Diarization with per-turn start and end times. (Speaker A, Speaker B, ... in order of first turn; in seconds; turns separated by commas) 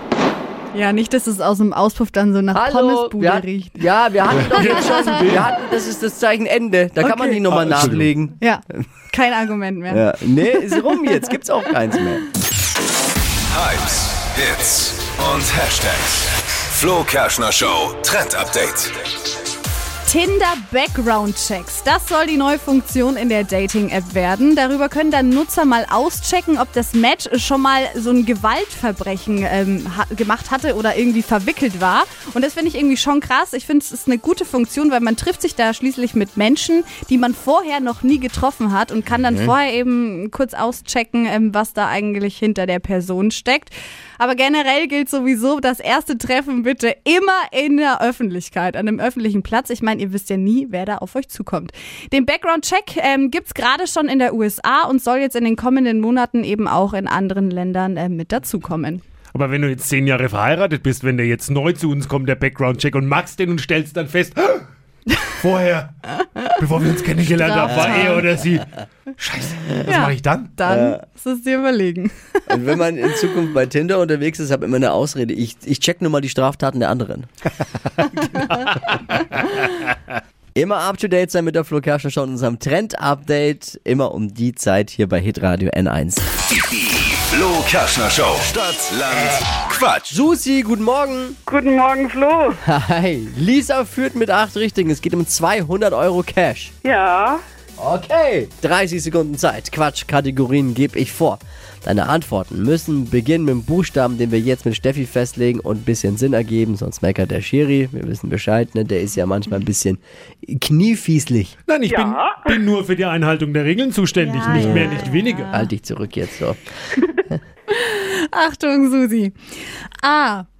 Speaker A: 0.7-3.9, Speaker B: 2.5-8.4, Speaker C: 4.4-5.4, Speaker A: 4.4-5.3, Speaker C: 7.0-8.1, Speaker A: 8.4-11.3, Speaker B: 9.9-12.2, Speaker D: 13.5-19.0, Speaker A: 20.0-59.0, Speaker C: 59.3-64.7, Speaker C: 65.3-70.6, Speaker A: 66.2-66.5, Speaker A: 67.3-68.3, Speaker A: 69.8-72.8, Speaker B: 70.6-71.0, Speaker B: 72.5-77.3, Speaker C: 78.4-79.4, Speaker B: 80.5-86.4, Speaker D: 86.5-90.1, Speaker B: 90.1-91.4, Speaker E: 91.5-92.6, Speaker B: 92.6-96.7, Speaker E: 96.8-97.4, Speaker B: 97.8-111.5, Speaker C: 111.7-115.5, Speaker E: 111.9-112.5, Speaker A: 114.2-115.7, Speaker B: 114.5-116.6, Speaker A: 117.7-119.4, Speaker A: 120.0-120.5